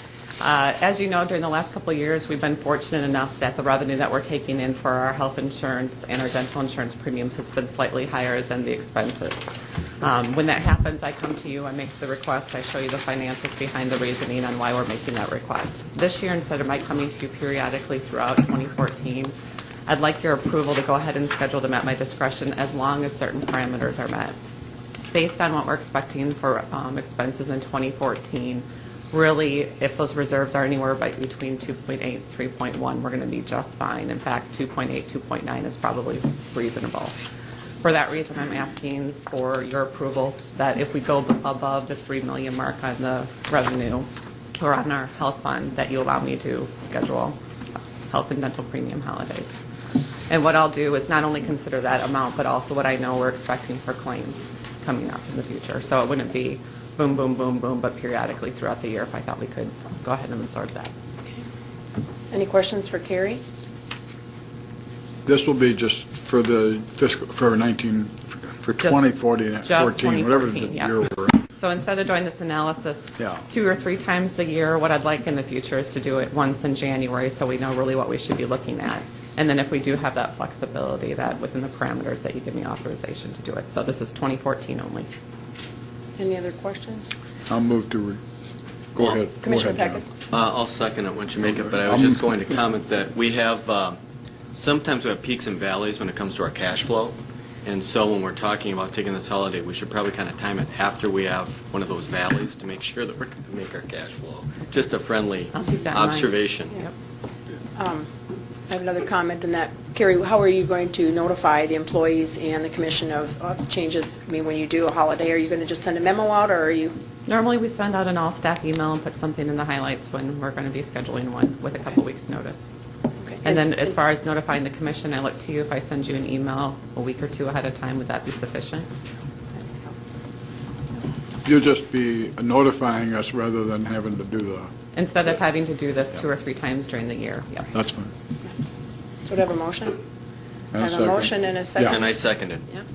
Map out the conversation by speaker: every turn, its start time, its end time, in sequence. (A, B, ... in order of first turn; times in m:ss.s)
0:00.4-0:09.5 A
0:10.0-0:19.3 A
0:19.9-0:24.4 A
0:25.1-0:37.1 A
0:37.8-0:47.4 A
0:48.1-0:49.6 A
0:50.3-1:00.9 A
1:02.3-1:03.4 B
1:05.2-1:11.4 C
1:08.8-1:25.1 A
1:13.2-1:13.4 C
1:26.2-1:27.1 B
1:27.5-1:28.2 C
1:28.9-1:30.1 C
1:29.4-1:30.1 B
1:30.3-1:34.0 D
1:31.5-1:32.4 C
1:34.5-1:46.8 D
1:45.5-1:46.9 A
1:47.8-1:48.1 B
1:48.7-1:56.9 B
1:57.2-2:02.7 A
2:03.2-2:03.8 B
2:03.4-2:08.8 A
2:09.5-2:09.9 B
2:11.4-2:14.7 C
2:14.9-2:17.7 A
2:17.7-2:18.1 C
2:19.2-2:20.0 B
2:20.7-2:22.0 C
2:20.8-2:22.2 B
2:21.8-2:22.6 D